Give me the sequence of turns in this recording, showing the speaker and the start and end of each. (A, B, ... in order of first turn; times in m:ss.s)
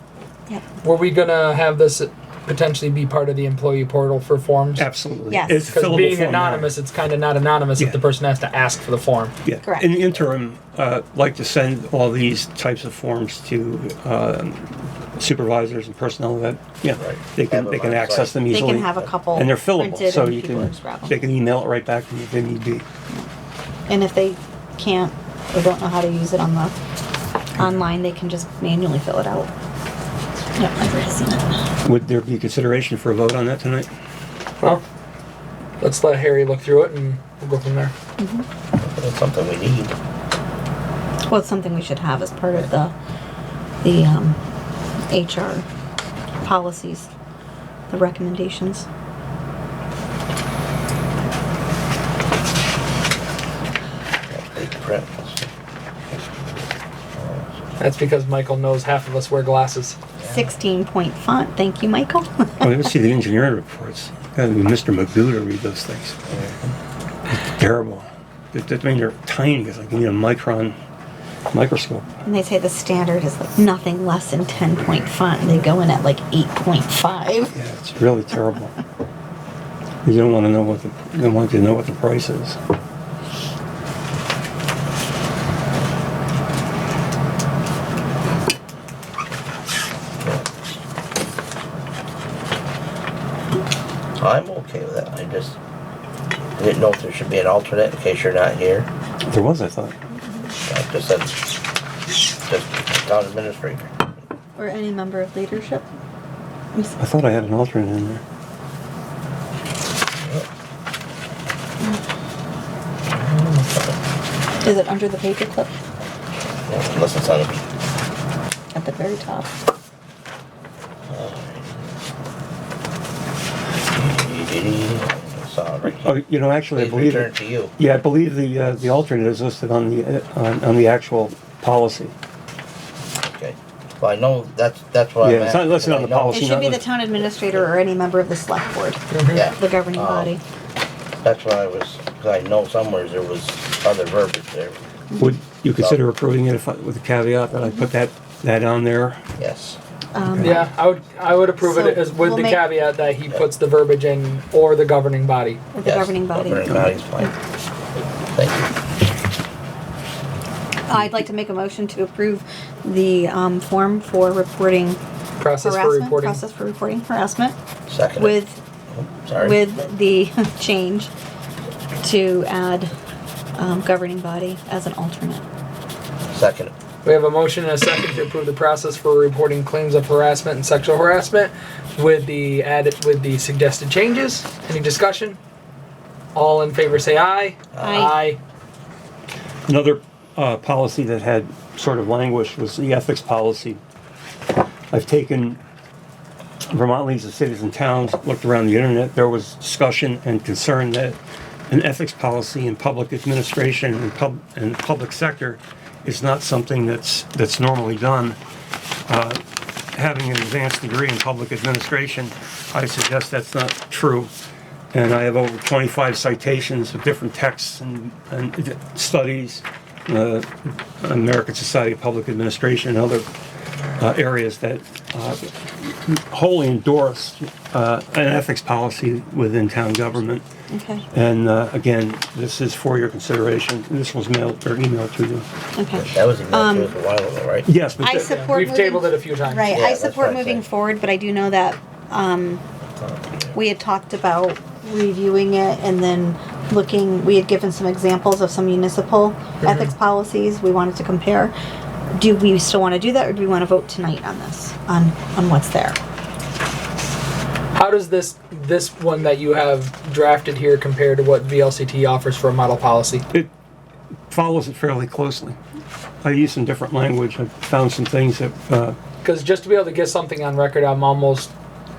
0:00.8-0:04.8 A
0:04.8-0:06.7 B
0:05.3-0:05.6 C
0:05.7-0:09.3 A
0:09.4-0:22.8 B
0:09.6-0:09.9 C
0:17.0-0:18.5 D
0:18.5-0:21.2 C
0:23.9-0:26.7 C
0:27.6-0:29.5 C
0:30.6-0:31.5 C
0:31.8-0:33.9 B
0:35.8-0:37.9 A
0:38.2-0:38.4 C
0:38.8-0:39.9 D
0:41.3-0:42.9 C
0:43.8-0:44.4 C
0:45.1-0:45.6 C
0:46.4-0:47.1 C
0:47.9-0:48.9 C
0:54.3-0:55.5 D
0:57.2-0:57.7 D
0:57.8-1:00.0 A
1:00.2-1:00.5 D
1:00.3-1:02.8 C
1:02.6-1:06.5 B
1:07.3-1:10.8 B
1:11.5-1:12.2 B
1:12.2-1:17.5 C
1:17.5-1:18.8 B
1:20.0-1:22.6 B
1:30.2-1:30.4 D
1:34.2-1:35.6 D
1:36.6-1:38.9 D
1:39.3-1:39.9 B
1:40.6-1:41.4 D
1:42.5-1:44.1 D
1:44.6-1:45.8 C
1:47.0-1:48.2 B
1:50.2-1:50.5 D
1:53.1-1:54.0 D
1:54.6-1:55.7 C
1:56.7-1:57.7 D
1:58.7-1:59.5 C
2:01.1-2:01.9 D
2:03.9-2:06.2 D
2:06.0-2:12.1 B
2:06.8-2:07.8 D
2:13.2-2:16.6 D
2:15.2-2:16.9 B
2:16.3-2:20.4 C
2:19.1-2:19.5 A
2:19.3-2:20.3 D
2:21.2-2:24.8 D
2:25.2-2:29.2 B
2:29.4-2:29.8 D
2:30.1-2:30.7 C
2:30.2-2:30.6 B
2:30.4-2:35.6 A
2:31.6-2:32.6 C
2:35.7-2:36.9 C
2:35.8-2:37.3 D
2:38.3-2:38.7 D
2:40.9-2:45.0 C
2:45.4-2:46.4 A
2:45.6-2:47.6 C
2:47.9-2:48.4 D
2:48.2-2:48.6 C
2:48.9-2:49.7 D
2:49.4-2:51.1 C
2:52.0-2:52.9 C
2:53.6-2:55.4 C
2:56.3-2:56.7 D
2:57.0-3:05.4 A
3:06.3-3:08.4 A
3:07.7-3:08.1 D
3:07.8-3:08.2 C
3:09.7-3:13.8 B
3:14.9-3:15.6 B
3:16.7-3:21.2 B
3:21.7-3:28.4 B
3:29.1-3:29.4 B
3:29.9-3:34.3 B
3:34.9-3:43.2 B
3:44.0-3:50.4 B
3:50.7-3:51.1 C
3:51.1-3:55.5 B
3:55.8-3:56.9 C
3:56.0-3:57.7 D
3:57.7-3:58.5 B
3:58.0-4:02.6 C
3:58.1-3:59.8 A
3:59.7-4:00.6 D
4:03.0-4:03.6 D
4:03.5-4:11.5 C
4:09.6-4:09.9 A
4:12.1-4:16.0 C
4:17.7-4:23.2 A
4:24.3-4:25.6 B
4:26.2-4:29.0 B
4:29.2-4:31.5 A